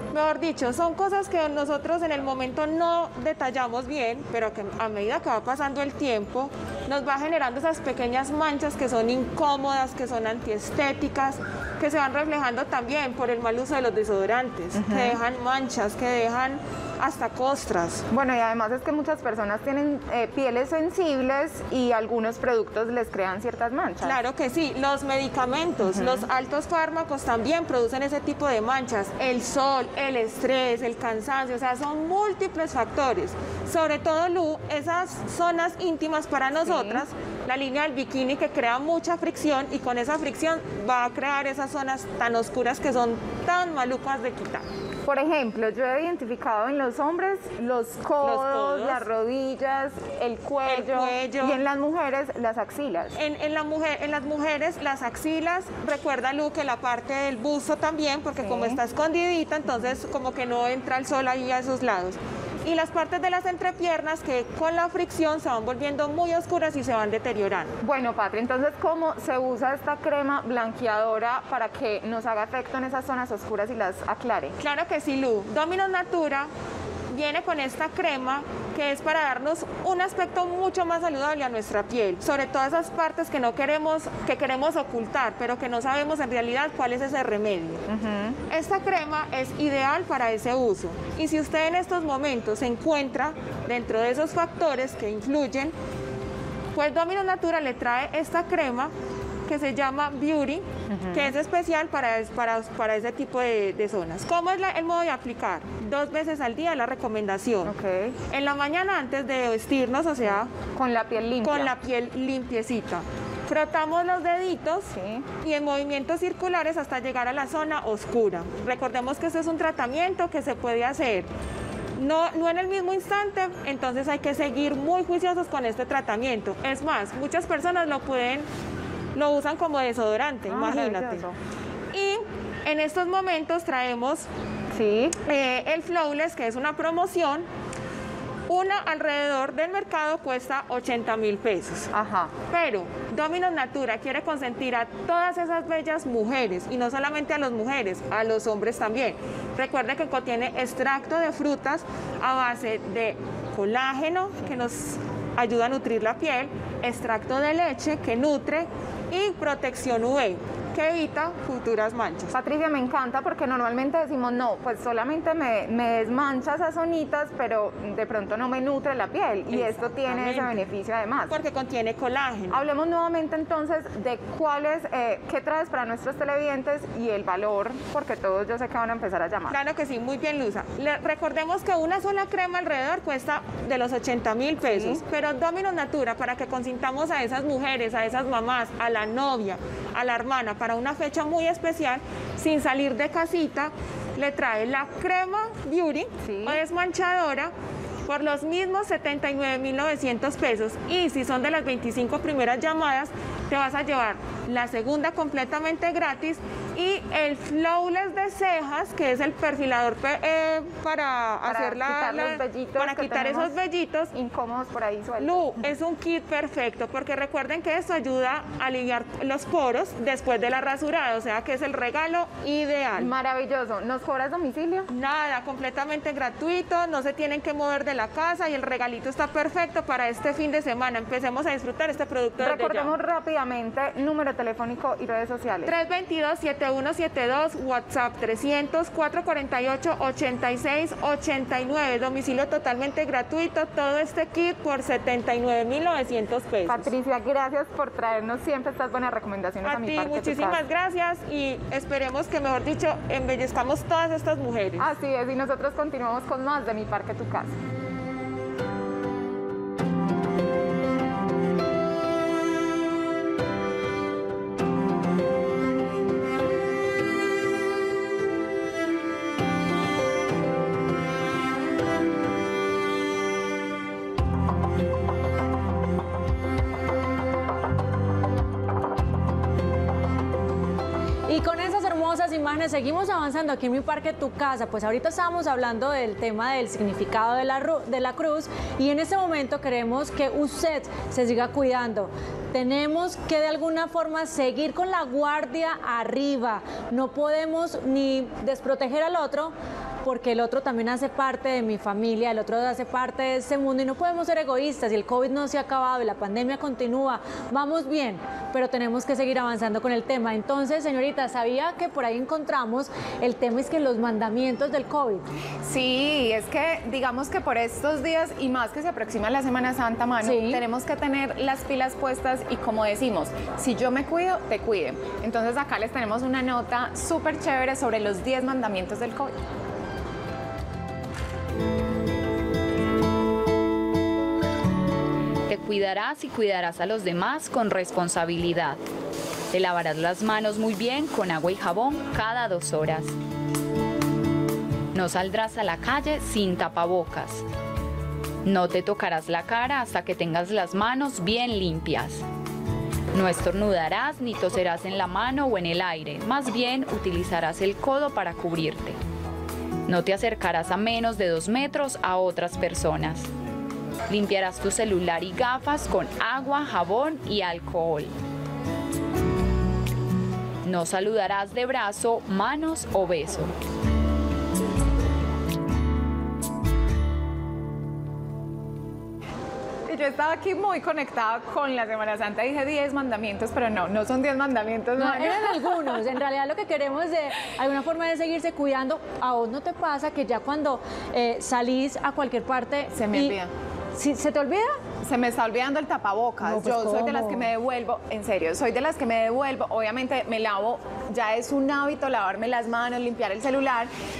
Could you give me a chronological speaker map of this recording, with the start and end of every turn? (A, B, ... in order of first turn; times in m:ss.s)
0:00.1-0:18.0 A
0:14.7-0:15.2 B
0:18.1-0:24.2 B
0:24.0-0:44.6 A
0:25.8-0:26.3 B
0:36.6-0:37.0 B
0:45.0-0:53.2 B
0:48.2-0:49.0 A
0:50.6-0:51.6 A
0:53.1-1:07.7 A
0:58.4-0:58.8 B
1:07.8-1:14.6 B
1:14.6-1:16.5 A
1:17.1-1:27.8 A
1:27.9-1:28.4 B
1:28.5-1:35.7 A
1:36.7-1:38.9 A
1:39.4-1:47.7 A
1:40.9-1:41.3 B
1:47.6-1:48.2 B
1:48.3-1:50.5 A
1:50.7-1:51.7 B
1:51.4-1:54.9 A
1:54.9-1:55.2 B
1:55.4-2:01.3 A
2:02.0-2:08.5 A
2:09.1-2:11.2 A
2:10.5-2:11.4 B
2:11.9-2:14.3 A
2:14.7-2:15.2 B
2:15.2-2:17.5 A
2:18.5-2:21.9 A
2:21.9-2:22.3 B
2:22.5-2:42.3 A
2:42.3-2:51.3 B
2:49.5-2:50.6 A
2:51.3-2:52.6 A
2:52.5-2:59.6 B
2:59.5-3:17.5 A
3:04.6-3:05.0 B
3:16.2-3:16.6 B
3:18.0-3:34.1 A
3:31.4-3:33.6 B
3:34.1-3:35.5 B
3:35.2-3:43.1 A
3:43.0-3:44.9 B
3:44.9-3:52.9 A
3:52.4-3:55.7 B
3:55.6-4:06.9 A
4:06.6-4:10.6 B
4:09.6-4:14.9 A
4:14.8-4:17.5 B
4:41.3-5:15.3 C
5:15.6-5:29.3 B
5:20.2-5:20.6 C
5:35.5-5:38.8 D
5:39.5-5:43.1 D
5:44.9-5:47.4 D
5:48.4-5:52.2 D
5:53.1-5:59.0 D
5:59.8-6:03.3 D
6:04.1-6:08.1 D
6:10.6-6:13.5 D
6:19.9-6:26.0 B
6:25.0-6:33.4 C
6:32.9-6:33.5 B
6:33.9-6:34.8 C
6:35.0-6:43.9 B
6:36.4-6:37.5 C